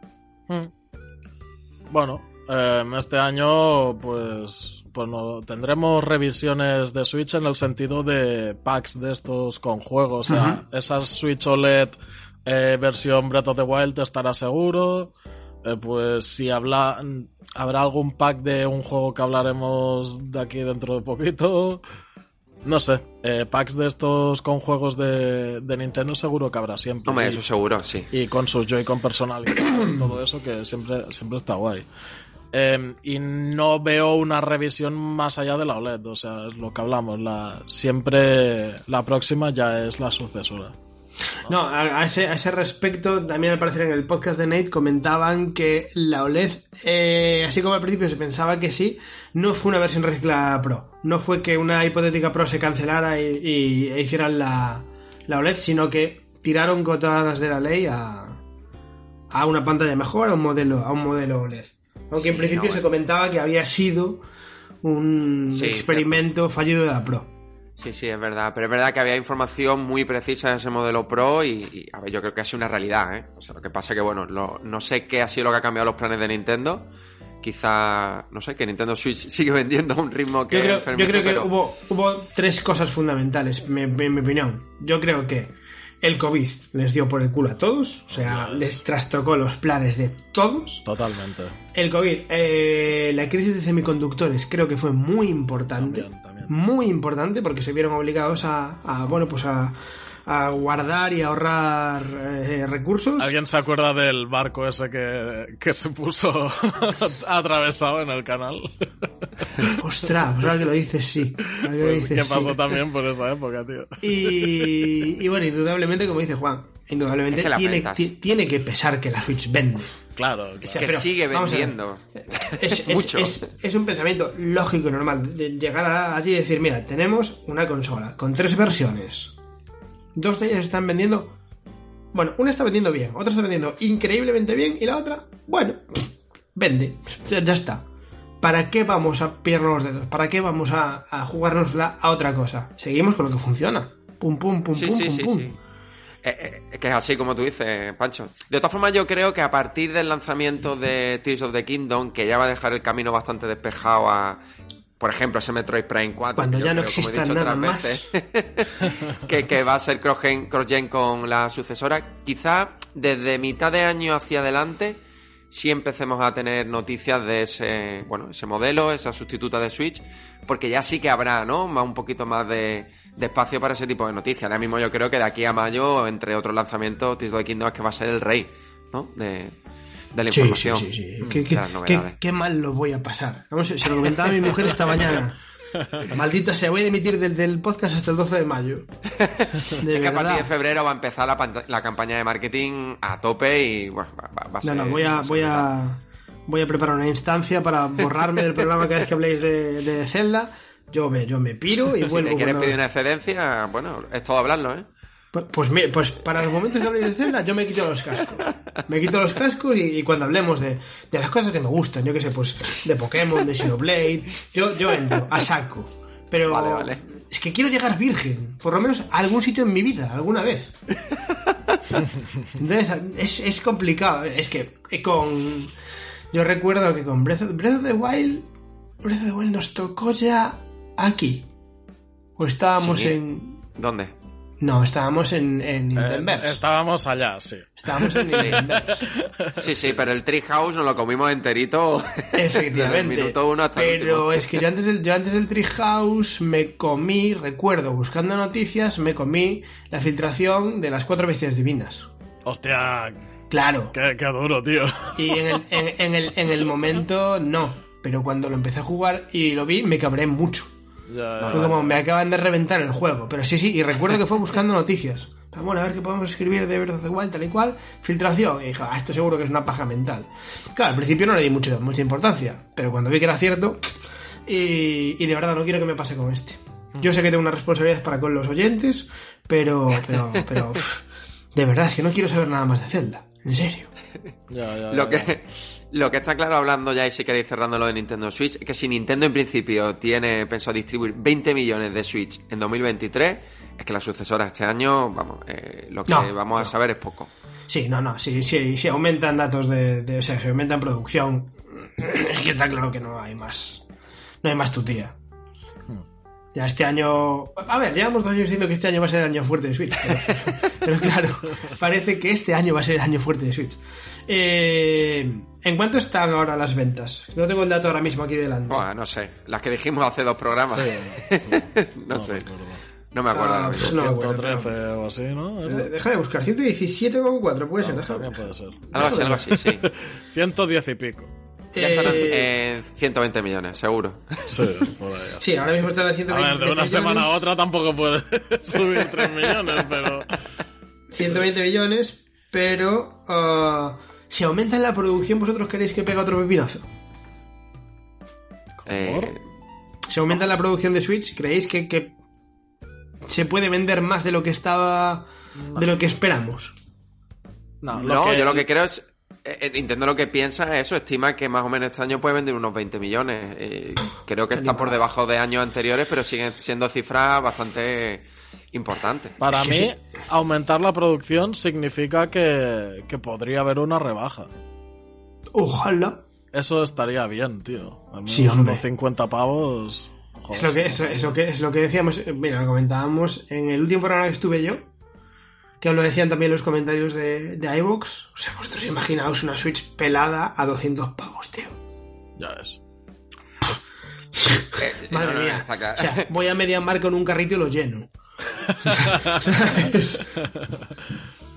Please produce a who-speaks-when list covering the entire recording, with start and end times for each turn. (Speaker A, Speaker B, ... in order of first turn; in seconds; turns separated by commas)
Speaker A: 1.9-15.1, Speaker B: 10.3-10.6, Speaker A: 15.6-21.8, Speaker A: 22.6-27.4, Speaker C: 27.1-28.1, Speaker A: 28.1-31.9, Speaker A: 32.5-40.8, Speaker B: 41.5-58.4, Speaker B: 59.3-64.2, Speaker C: 62.1-62.9, Speaker B: 64.8-67.3, Speaker C: 65.5-66.2, Speaker C: 67.8-76.9, Speaker C: 77.4-81.5, Speaker B: 80.5-90.8, Speaker A: 88.1-88.8, Speaker A: 90.8-91.6, Speaker B: 91.7-103.3, Speaker A: 95.8-96.5, Speaker A: 103.2-108.9, Speaker B: 109.7-112.7, Speaker A: 111.5-115.2, Speaker B: 114.0-120.0, Speaker C: 117.3-118.1, Speaker A: 120.2-120.8, Speaker B: 120.7-129.4, Speaker C: 120.7-123.4, Speaker B: 130.2-131.3, Speaker B: 132.1-137.8, Speaker B: 138.4-145.5, Speaker C: 144.7-145.5, Speaker C: 146.2-154.4, Speaker C: 155.0-165.0, Speaker B: 156.4-158.1, Speaker C: 165.5-179.6, Speaker C: 180.1-180.9, Speaker B: 180.3-185.4, Speaker C: 181.4-182.2, Speaker A: 185.8-186.1, Speaker B: 186.0-188.9, Speaker C: 189.2-195.7, Speaker B: 189.8-190.5, Speaker B: 194.6-202.8, Speaker C: 202.0-204.9, Speaker B: 205.3-220.7, Speaker C: 216.5-217.0, Speaker C: 221.1-221.8, Speaker B: 222.6-225.7, Speaker B: 226.3-228.5, Speaker B: 229.0-231.5, Speaker B: 232.4-233.6, Speaker C: 232.8-233.2, Speaker C: 233.8-234.1, Speaker B: 234.6-236.6, Speaker A: 235.9-239.6, Speaker B: 237.8-239.1, Speaker C: 238.3-238.6, Speaker C: 239.6-244.4, Speaker B: 242.3-252.1, Speaker A: 252.5-253.2, Speaker B: 253.5-253.9, Speaker A: 253.9-255.6, Speaker B: 255.2-260.7, Speaker A: 261.1-261.9, Speaker B: 261.4-273.9, Speaker B: 274.5-281.0, Speaker B: 281.5-283.9, Speaker A: 284.5-285.4, Speaker C: 284.9-297.3, Speaker B: 296.1-296.7, Speaker B: 297.7-303.9, Speaker B: 304.4-305.1, Speaker B: 306.5-318.9, Speaker C: 318.7-322.5, Speaker A: 320.7-322.8, Speaker C: 323.1-324.0, Speaker B: 323.3-324.7, Speaker A: 323.8-325.9, Speaker B: 325.6-328.4, Speaker A: 327.8-331.3, Speaker B: 328.9-329.5, Speaker C: 328.9-329.9, Speaker B: 331.7-332.5, Speaker C: 331.8-334.5, Speaker A: 334.5-335.4, Speaker B: 335.4-337.3, Speaker A: 336.3-340.4, Speaker B: 341.1-346.9, Speaker A: 348.8-349.3, Speaker C: 348.9-349.4, Speaker B: 350.1-352.1, Speaker B: 353.2-356.8, Speaker A: 355.6-355.9, Speaker A: 357.8-358.7, Speaker C: 357.9-369.4, Speaker B: 364.6-365.0, Speaker A: 369.4-374.5, Speaker B: 369.5-369.9, Speaker B: 375.6-376.2, Speaker A: 376.5-381.4, Speaker B: 378.3-378.8, Speaker B: 380.5-384.9, Speaker B: 385.8-391.8, Speaker A: 392.4-392.8, Speaker B: 394.4-398.1, Speaker C: 394.8-396.3, Speaker A: 398.6-399.4, Speaker B: 398.9-400.3, Speaker A: 400.2-401.1